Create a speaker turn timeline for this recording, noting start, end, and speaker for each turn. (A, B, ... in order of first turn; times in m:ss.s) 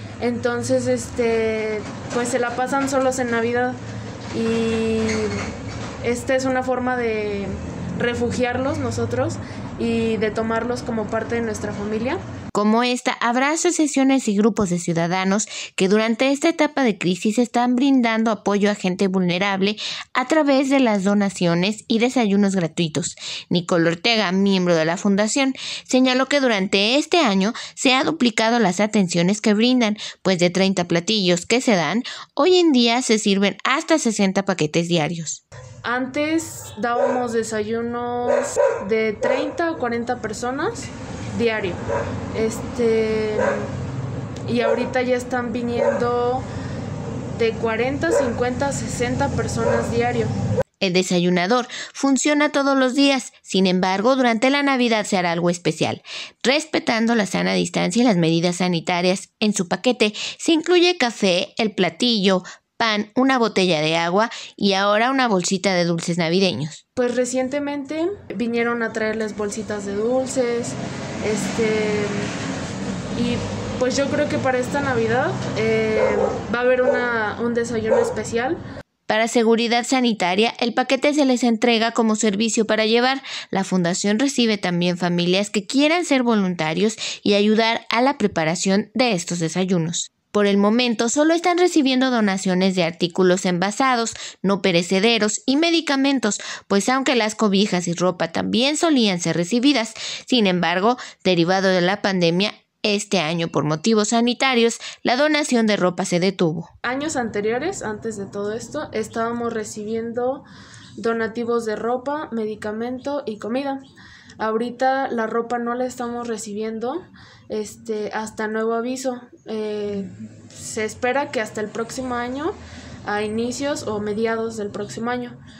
0:00.2-0:03.8 A
0:04.3-0:05.5 A
0:06.0-0:12.2 A
0:12.5-0:35.4 B
0:35.8-0:41.8 A
0:42.3-0:43.7 A
0:44.5-0:46.4 A
0:47.4-0:50.3 A
0:50.8-1:06.8 B
1:07.0-1:12.3 A
1:13.2-1:18.6 A
1:19.1-1:46.7 B
1:46.8-1:50.4 A
1:51.0-1:53.8 A
1:54.4-2:05.4 A